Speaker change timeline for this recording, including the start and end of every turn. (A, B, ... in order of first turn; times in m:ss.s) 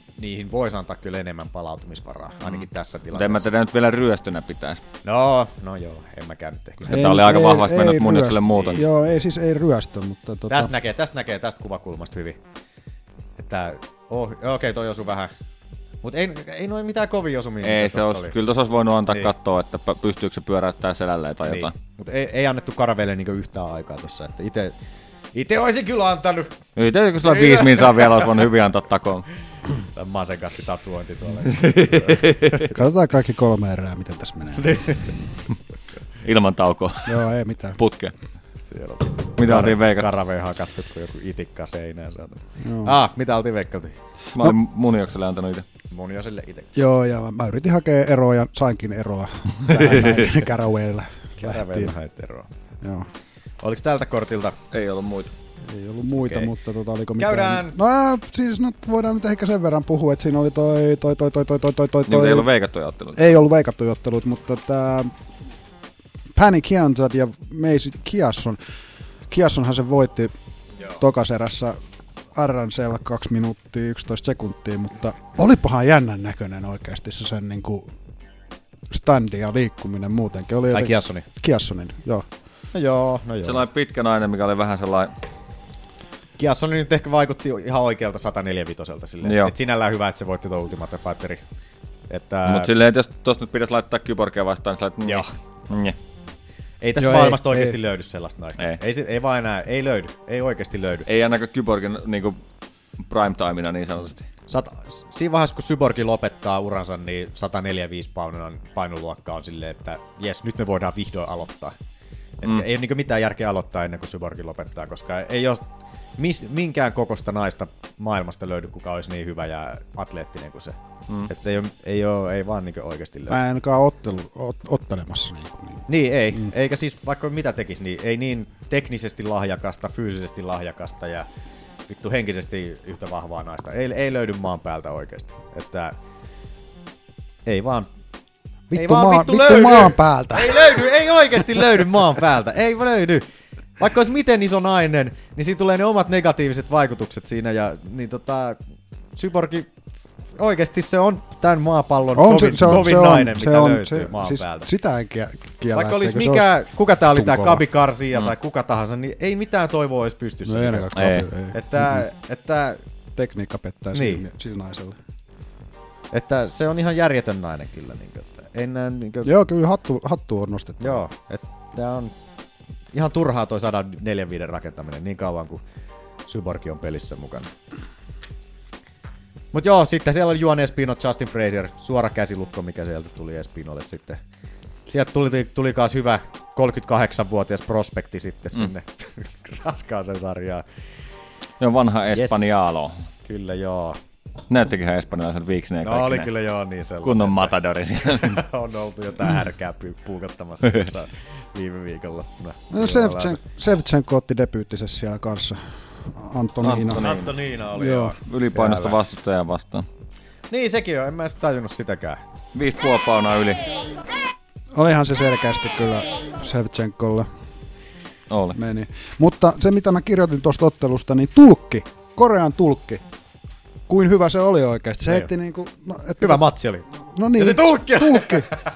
0:00.2-0:03.5 A
0:03.1-0:04.8 B
0:05.0-0:06.9 A
0:06.8-0:08.8 B
0:06.8-0:10.7 C
0:10.5-0:12.4 A
0:13.4-0:15.3 A
0:16.0-0:18.3 A
0:17.6-0:21.7 B
0:21.4-0:24.7 A
0:25.3-0:26.6 A
0:26.8-0:29.3 B
0:27.2-0:28.3 A
0:29.9-0:32.7 A
0:31.6-0:32.6 B
0:32.7-0:35.0 C
0:34.6-0:35.1 A
0:36.2-0:38.1 B
0:37.0-0:37.8 C
0:38.7-0:43.9 A
0:39.4-0:40.1 B
0:42.6-0:43.0 C
0:44.3-0:45.6 B
0:45.9-0:46.7 A
0:46.7-0:51.9 C
0:51.4-0:52.5 A
0:52.8-0:53.1 C
0:53.6-0:54.6 A
0:54.7-0:55.3 B
0:55.6-1:02.5 C
0:56.2-0:56.5 A
0:57.2-0:57.8 A
1:02.1-1:03.3 B
1:03.1-1:05.1 C
1:06.3-1:08.6 C
1:09.3-1:10.3 C
1:11.0-1:11.8 C
1:12.3-1:17.9 C
1:18.9-1:22.2 C
1:20.7-1:21.2 A
1:22.7-1:23.6 A
1:23.4-1:25.1 B
1:26.4-1:31.4 A
1:29.2-1:29.5 B
1:32.1-1:32.7 A
1:32.4-1:36.0 B
1:36.8-1:41.1 A
1:37.0-1:37.8 C
1:41.1-1:42.4 B
1:43.0-1:44.2 B
1:44.5-1:51.8 A
1:52.4-1:55.6 A
1:56.2-2:00.8 A
2:01.3-2:03.4 A
2:03.3-2:06.5 C
2:05.9-2:11.3 A
2:11.9-2:15.9 A
2:17.4-2:17.9 A
2:18.7-2:20.9 C
2:18.7-2:23.2 A
2:23.8-2:28.6 A
2:29.2-2:29.7 A
2:30.4-2:34.7 A
2:32.1-2:37.6 C
2:35.7-2:40.9 A
2:40.4-2:42.0 C
2:40.9-2:41.3 B
2:41.5-2:42.8 A
2:43.2-2:45.0 C
2:43.9-2:44.2 A
2:46.1-2:49.3 A
2:49.2-2:51.0 C
2:50.8-2:52.1 A
2:52.9-2:55.6 A
2:56.3-2:57.5 A
2:59.5-3:04.2 A
3:04.9-3:10.6 A
3:11.6-3:13.0 B
3:12.1-3:14.0 A
3:14.5-3:16.3 B
3:15.8-3:17.5 A
3:17.0-3:18.4 B
3:18.1-3:23.4 A
3:22.7-3:27.1 C
3:26.6-3:27.3 B
3:26.9-3:29.0 A
3:27.7-3:28.2 C
3:28.2-3:29.8 B
3:30.5-3:32.2 A
3:32.5-3:33.6 B
3:34.7-3:37.3 C
3:38.3-3:38.6 B
3:38.5-3:43.0 C
3:43.9-3:48.5 C
3:46.2-3:48.4 A